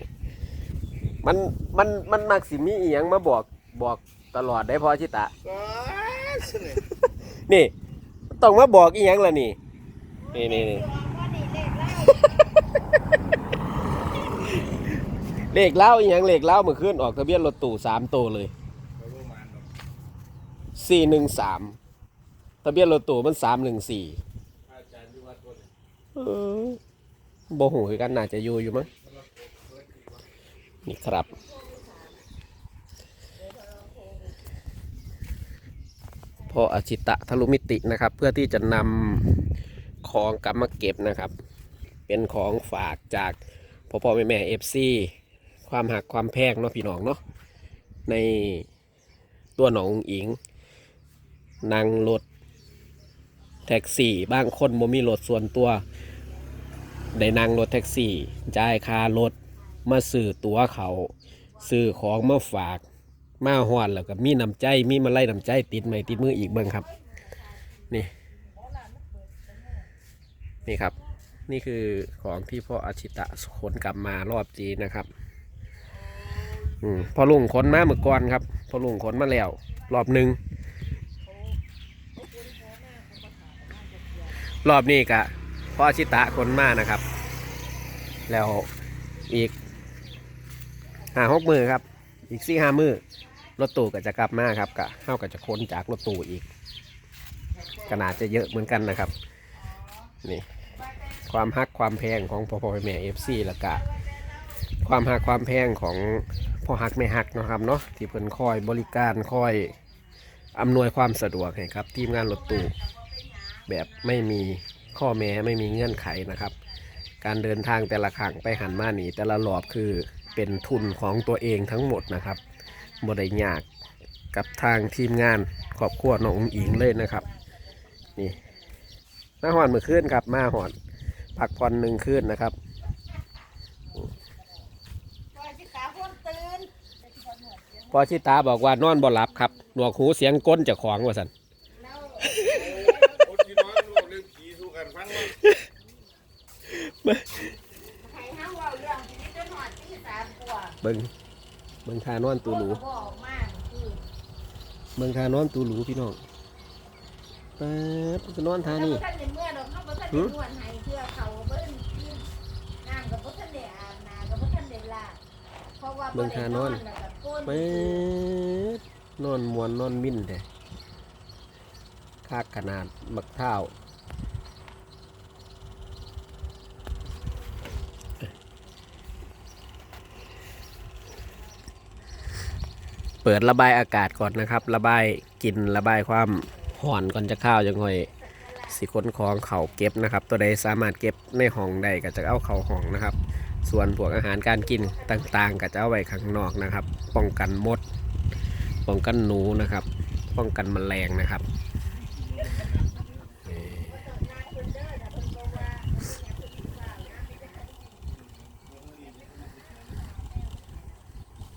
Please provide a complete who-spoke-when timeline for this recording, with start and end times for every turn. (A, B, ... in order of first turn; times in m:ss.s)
0:01.2-0:05.3 A
0:05.4-0:06.8 B
0:07.5-0:07.7 A
0:08.4-0:09.6 A
0:10.2-0:12.6 C
0:10.3-0:10.8 A
0:14.4-0:14.9 A
0:15.5-0:18.5 A
0:19.0-0:19.7 B
0:20.8-0:21.8 A
0:22.6-0:24.2 A
0:24.7-0:25.7 B
0:26.2-0:26.8 A
0:27.5-0:28.9 A
0:29.0-0:30.2 B
0:30.8-0:31.3 A
0:31.2-0:32.2 C
0:33.4-0:34.4 C
0:36.5-0:39.4 A
0:40.0-0:41.3 A
0:42.1-0:43.4 A
0:43.9-0:45.1 A
0:45.7-0:47.2 A
0:48.1-0:48.7 A
0:49.6-0:50.4 A
0:51.6-0:52.2 A
0:53.6-0:55.8 A
0:57.1-0:59.3 A
0:59.9-1:01.1 A
1:01.6-1:02.8 A
1:03.4-1:06.8 A
1:06.0-1:09.9 C
1:10.6-1:10.9 A
1:11.5-1:15.1 A
1:16.0-1:16.9 B
1:16.8-1:20.4 A
1:21.2-1:21.6 C
1:22.2-1:24.5 C
1:24.6-1:27.0 A
1:28.3-1:28.7 A
1:31.1-1:33.0 A
1:33.6-1:36.4 A
1:37.6-1:38.1 B
1:37.9-1:39.1 A
1:39.6-1:40.1 C
1:40.7-1:41.3 C
1:41.3-1:43.8 A
1:43.2-1:45.2 C
1:44.8-1:49.7 A
1:48.6-1:48.8 C
1:50.6-1:52.7 A
1:52.0-1:54.4 C
1:53.7-1:56.5 A
1:57.2-2:02.4 A
2:00.4-2:03.0 C
2:03.0-2:03.7 A
2:04.3-2:07.2 A
2:05.6-2:08.7 C
2:09.4-2:10.7 A
2:11.4-2:12.6 A
2:15.3-2:18.1 C
2:17.9-2:21.3 A
2:21.7-2:23.9 C
2:22.2-2:22.6 A
2:22.5-2:25.3 B
2:25.2-2:25.6 A
2:26.7-2:27.5 A
2:28.0-2:30.8 C
2:30.8-2:31.1 A
2:31.9-2:32.8 A
2:32.4-2:34.0 C
2:35.0-2:36.2 A
2:37.6-2:39.0 A
2:38.7-2:42.3 C
2:42.8-2:45.2 C
2:45.8-2:48.1 C
2:46.1-2:46.8 A
2:47.4-2:50.4 A
2:52.2-2:53.7 A
3:03.2-3:08.1 A
3:08.2-3:08.7 C
3:08.6-3:17.8 A
3:14.6-3:15.3 C
3:18.9-3:21.4 A
3:22.2-3:23.6 B
3:23.5-3:23.9 A
3:23.8-3:27.9 C
3:28.5-3:29.6 B
3:29.1-3:30.6 C